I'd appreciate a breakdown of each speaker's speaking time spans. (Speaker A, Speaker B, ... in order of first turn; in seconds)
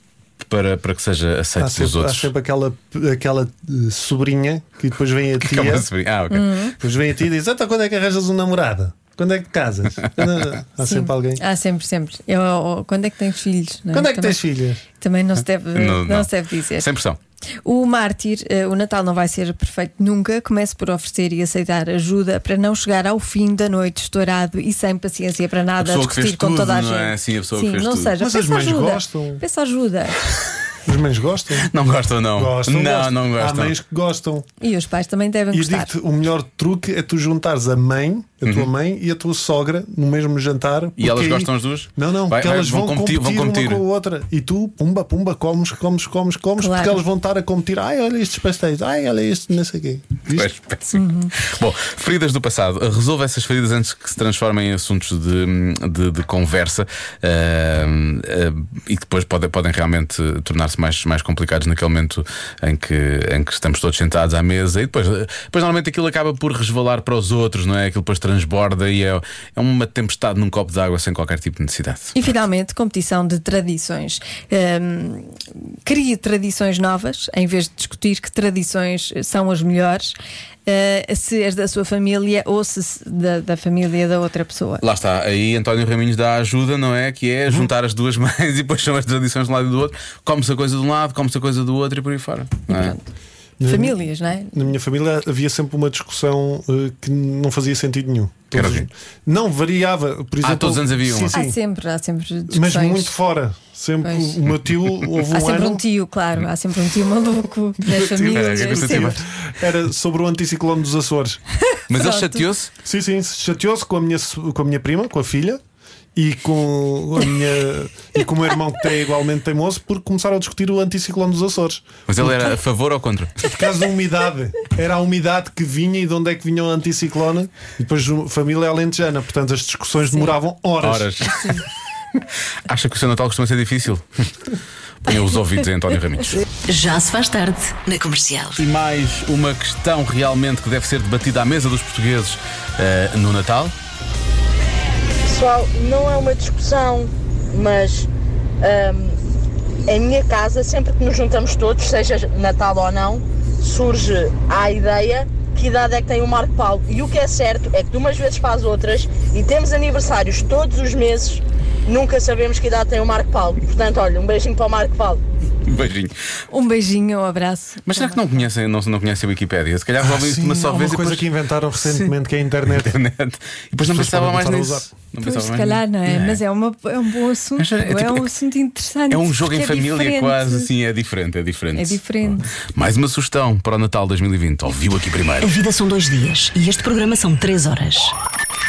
Speaker A: 0.4-2.3, 5.4-6.6, 15.7-17.2, 25.8-28.1, 31.6-33.8, 41.0-43.8, 50.3-72.3, 84.8-93.0, 98.5-98.9, 100.4-101.3, 108.1-109.2, 111.9-112.7, 122.1-123.4, 130.8-131.5, 132.7-136.4, 138.6-143.7, 165.7-166.2, 167.9-171.3, 171.8-172.1, 172.7-176.4, 177.6-178.3, 179.1-182.0, 182.6-185.5
Speaker B: 1.6-5.9, 6.8-11.4, 13.9-14.8, 28.2-29.4, 30.8-31.7, 32.3-34.5, 35.5-50.5, 93.6-94.0, 94.5-101.5, 102.5-105.8, 107.9-111.4, 112.8-115.6, 116.1-122.5, 123.4-131.2, 170.0-172.9, 173.8-174.9
Speaker C: 6.3-6.7, 10.8-14.4, 14.9-16.9, 17.6-30.3, 34.6-35.9, 46.6-47.0, 50.9-51.3, 72.1-80.1, 80.7-84.8, 92.7-93.0, 93.7-94.7, 101.3-103.1, 104.0-104.4, 105.3-109.2, 111.7-112.4, 166.5-168.4, 175.2-180.7, 181.8-182.5
Speaker D: 136.7-138.6, 185.4-188.1
Speaker E: 145.2-148.1, 148.6-149.2, 149.8-165.2